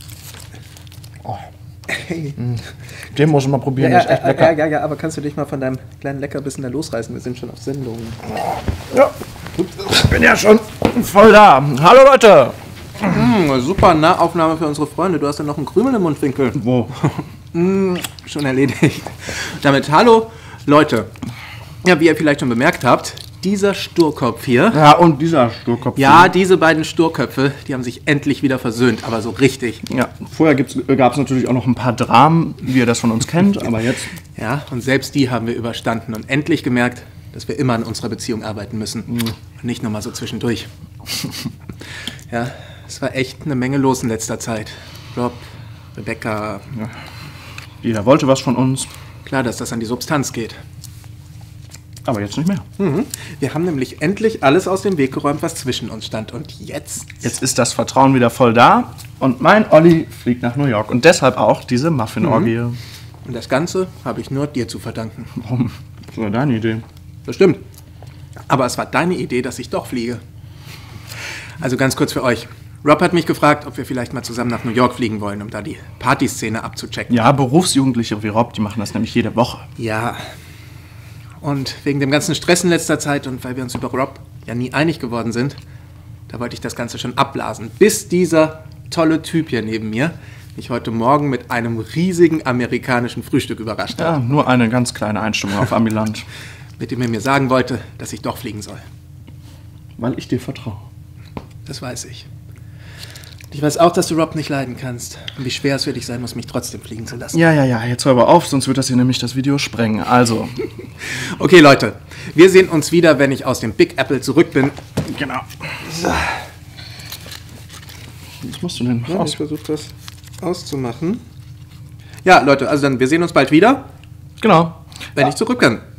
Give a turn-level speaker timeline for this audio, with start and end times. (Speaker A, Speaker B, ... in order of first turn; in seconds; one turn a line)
Speaker A: 1.9-2.4
Speaker B: 3.1-4.5
Speaker A: 3.8-8.3
Speaker B: 8.9-12.6
Speaker A: 13.1-21.1
Speaker B: 16.6-16.9
Speaker A: 21.8-24.8
Speaker B: 24.7-26.3
Speaker A: 26.0-29.8
Speaker B: 29.9-34.1
Speaker A: 34.4-40.7
Speaker B: 39.1-39.3
Speaker A: 42.3-46.7
Speaker B: 47.8-48.9
Speaker A: 49.2-50.6
Speaker B: 52.0-52.6
Speaker A: 52.8-57.2
Speaker B: 57.2-62.8
Speaker A: 62.2-62.5
Speaker A: 63.2-65.3
Speaker B: 65.4-66.8
Speaker A: 67.3-67.6
Speaker A: 68.5-70.2
Speaker A: 71.6-77.2
Speaker B: 77.1-79.6
Speaker A: 79.8-80.2
Speaker A: 81.4-85.6
Speaker A: 86.3-94.2
Speaker B: 94.0-96.2
Speaker A: 96.8-98.8
Speaker B: 100.0-100.8
Speaker A: 101.7-102.3
Speaker A: 103.5-107.4
Speaker B: 107.3-110.6
Speaker A: 111.2-114.8
Speaker B: 115.1-115.5
Speaker A: 116.0-116.2
Speaker B: 118.4-119.4
Speaker A: 119.1-121.2
Speaker A: 122.2-123.8
Speaker B: 124.4-124.8
Speaker A: 125.2-125.8